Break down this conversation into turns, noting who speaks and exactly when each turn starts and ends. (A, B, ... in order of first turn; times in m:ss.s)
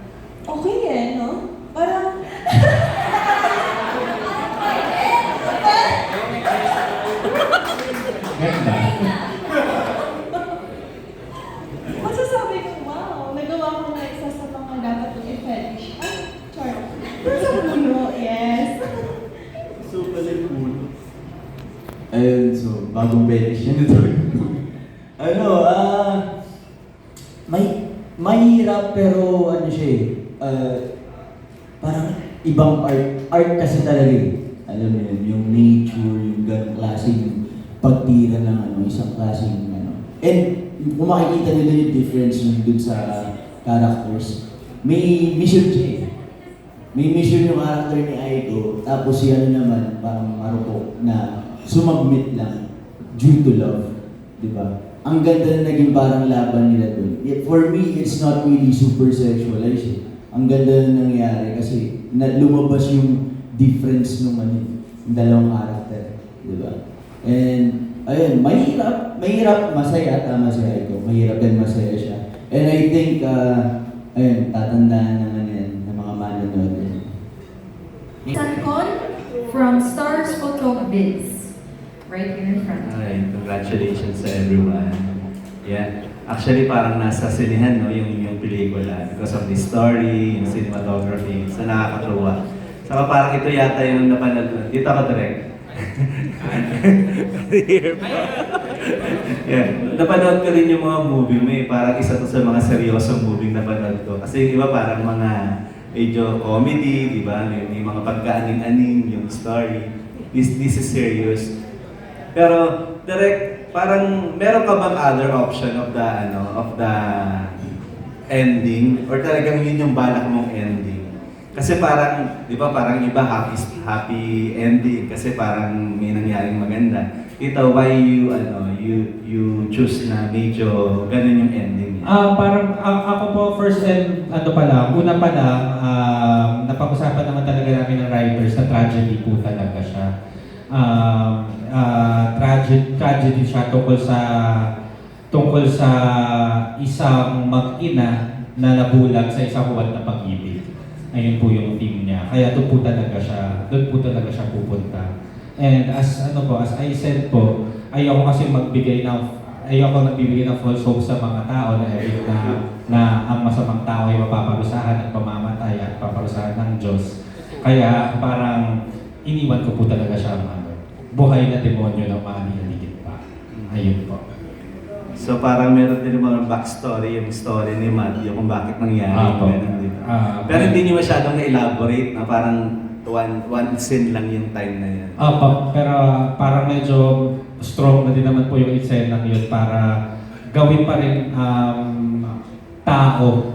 0:00.5-0:06.5 A
0:08.4-0:09.0 B
0:09.5-0:10.1 A
0:11.9-0:19.2 A
0:19.8-0:20.9 C
0:22.1-0:24.6 C
0:25.2-0:26.2 C
0:27.5-0:30.8 C
0:31.8-0:46.1 C
0:46.9-0:52.6 C
0:53.2-0:53.9 C
0:54.4-1:17.0 C
1:18.3-1:18.9 D
1:19.5-1:21.5 D
1:22.1-1:22.9 D
1:22.8-1:25.0 E
1:25.6-1:45.4 E
1:46.0-1:51.5 E
1:52.4-1:57.7 E
1:58.3-2:12.1 E
2:12.0-2:20.1 B
2:20.7-2:24.7 B
2:25.3-2:30.6 B
2:31.1-2:48.7 B
2:49.3-2:54.2 B
2:55.2-3:05.4 E
2:59.1-3:00.8 B
3:05.2-3:09.9 B
3:10.5-3:12.3 B
3:12.9-3:13.4 B